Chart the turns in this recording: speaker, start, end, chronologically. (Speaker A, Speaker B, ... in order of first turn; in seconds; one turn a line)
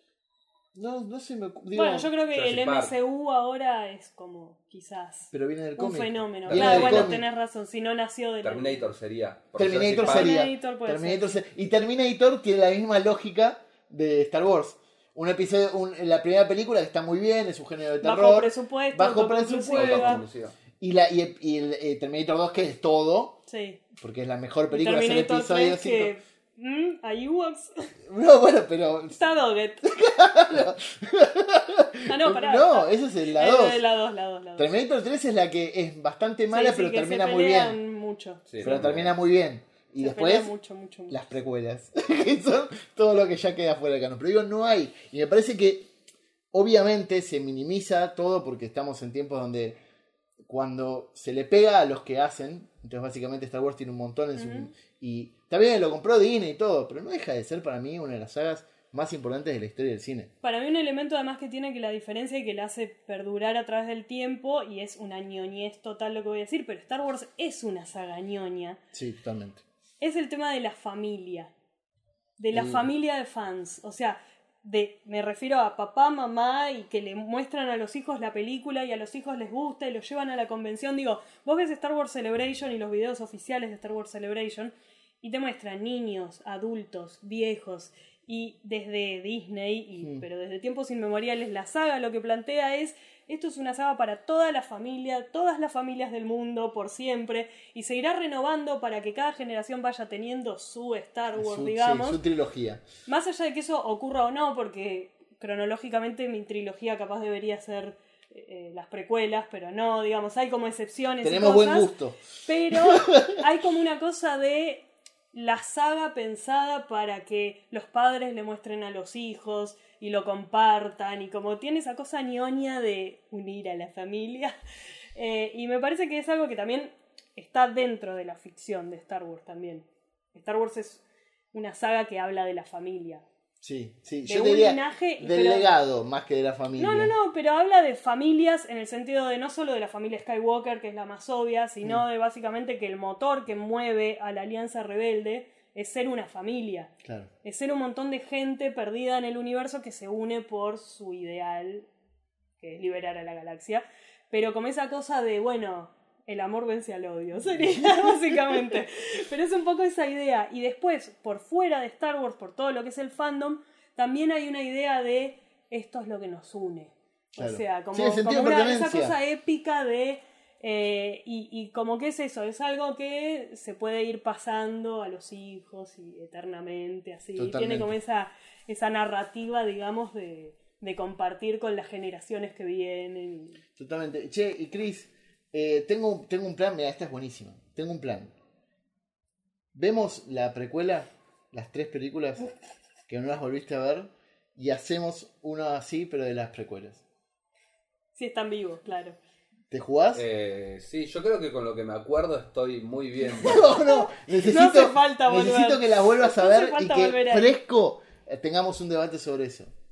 Speaker A: 0.7-2.1
Speaker B: 1.7-8.8
Speaker C: 2.3-3.0
Speaker A: 5.3-7.3
Speaker C: 6.5-7.2
Speaker C: 8.4-10.3
Speaker A: 9.6-20.2
Speaker B: 10.0-11.4
Speaker B: 18.0-20.2
Speaker C: 19.8-20.6
Speaker A: 20.8-23.4
Speaker B: 23.5-23.8
Speaker A: 23.9-26.1
Speaker B: 24.7-27.8
Speaker A: 28.1-29.2
Speaker B: 29.1-29.9
Speaker A: 29.8-33.8
Speaker B: 32.1-34.7
Speaker A: 34.6-37.8
Speaker B: 36.5-38.4
Speaker C: 38.5-39.1
Speaker A: 38.6-40.5
Speaker B: 40.0-41.2
Speaker A: 41.1-45.9
Speaker A: 46.5-49.8
Speaker A: 50.4-60.3
Speaker B: 54.4-54.7
Speaker B: 60.4-68.8
Speaker A: 68.9-69.6
Speaker B: 70.0-71.5
Speaker B: 72.4-102.2
Speaker A: 72.5-72.9
Speaker A: 101.4-102.8
Speaker B: 103.1-111.9
Speaker A: 111.2-112.2
Speaker B: 112.4-124.5
Speaker A: 112.7-113.4
Speaker B: 125.2-133.3
Speaker A: 133.6-137.1
Speaker B: 134.2-135.7
Speaker B: 136.8-146.9
Speaker A: 147.0-147.3
Speaker B: 147.4-151.9
Speaker B: 152.6-183.6
Speaker A: 157.8-158.1
Speaker A: 167.4-169.2
Speaker A: 177.4-177.9
Speaker A: 183.8-188.3
Speaker A: 189.7-192.5
Speaker A: 193.1-197.0
Speaker B: 198.2-199.2
Speaker A: 199.7-200.2
Speaker C: 200.1-203.6
Speaker A: 203.4-209.7
Speaker B: 203.5-207.5